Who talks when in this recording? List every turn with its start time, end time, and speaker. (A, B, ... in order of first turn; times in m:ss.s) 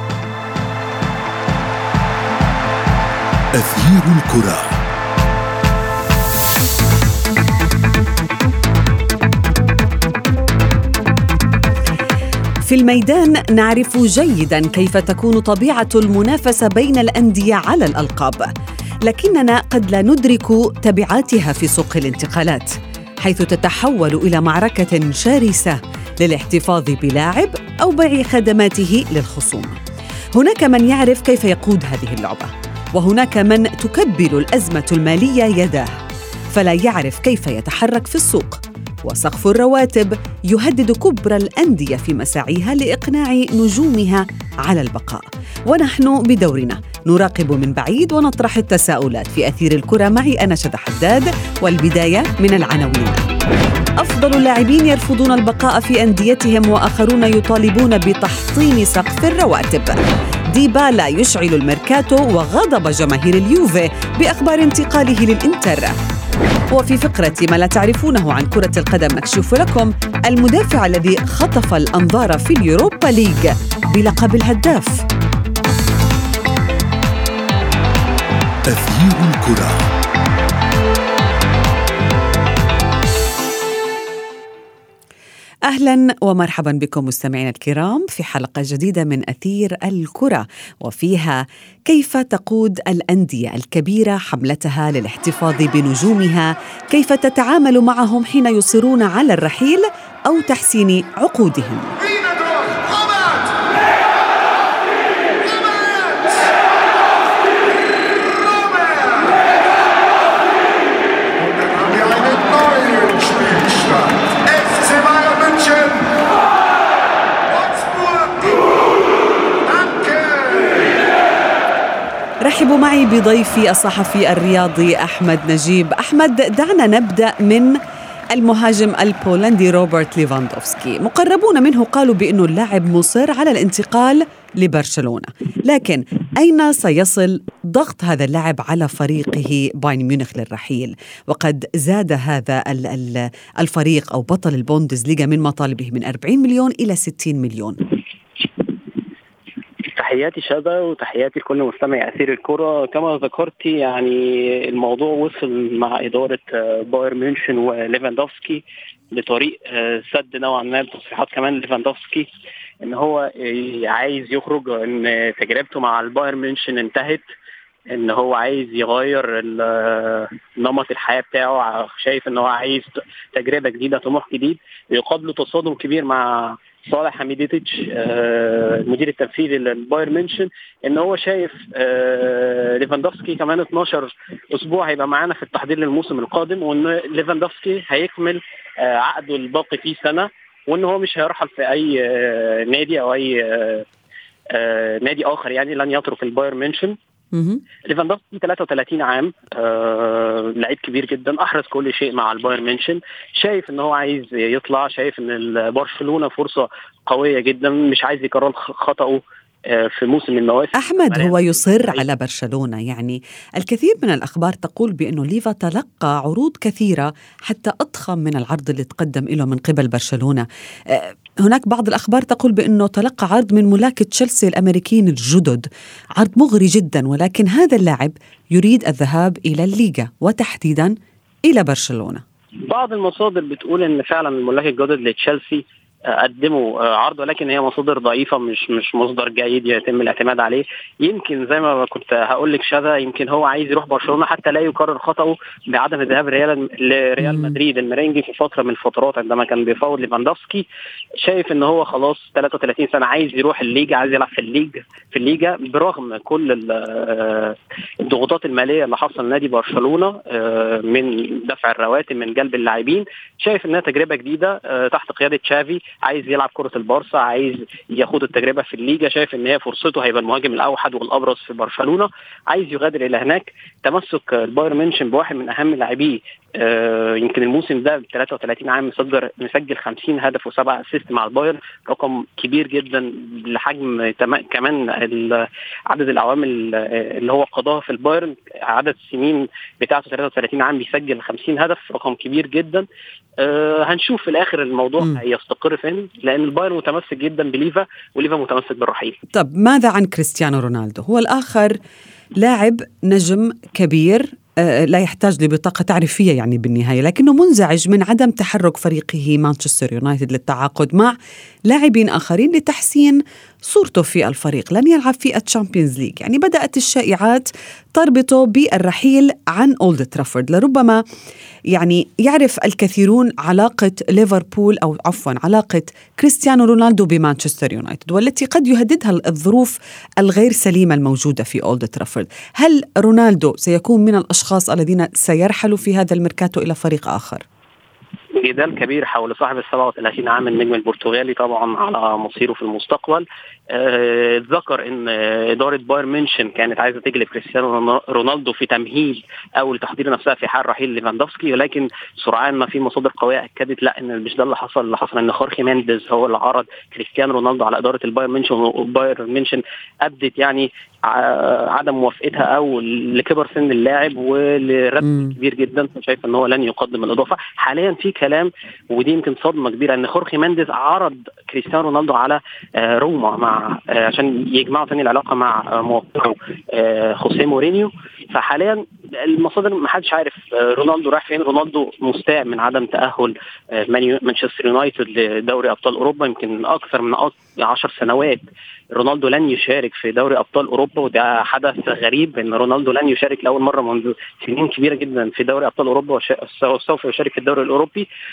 0:03.5-0:04.8 A
0:12.6-0:18.5 B
0:19.0-0:29.8 B
0:30.3-0:35.9 B
0:36.5-0:53.2 B
0:54.0-1:00.0 B
1:00.5-1:06.0 B
1:06.7-1:15.0 B
1:18.7-1:19.9 A
1:25.7-1:42.0 B
1:51.6-1:56.1 A
1:57.8-1:58.5 A
1:59.8-2:00.8 A
2:02.4-2:07.8 B
2:08.3-2:27.8 B
2:30.0-2:42.3 C
2:42.8-2:47.2 C
2:47.9-3:13.9 C
3:14.5-3:17.0 C
3:17.3-3:17.6 B
3:17.8-3:32.0 C
3:30.8-3:52.2 B
3:52.7-4:10.7 C
4:07.2-4:07.6 B
4:11.2-4:52.9 C
4:53.4-4:59.2 C
4:59.3-5:01.8 B
5:02.4-5:11.2 B
5:11.7-5:21.0 B
5:21.7-5:37.4 B
5:38.4-6:38.1 C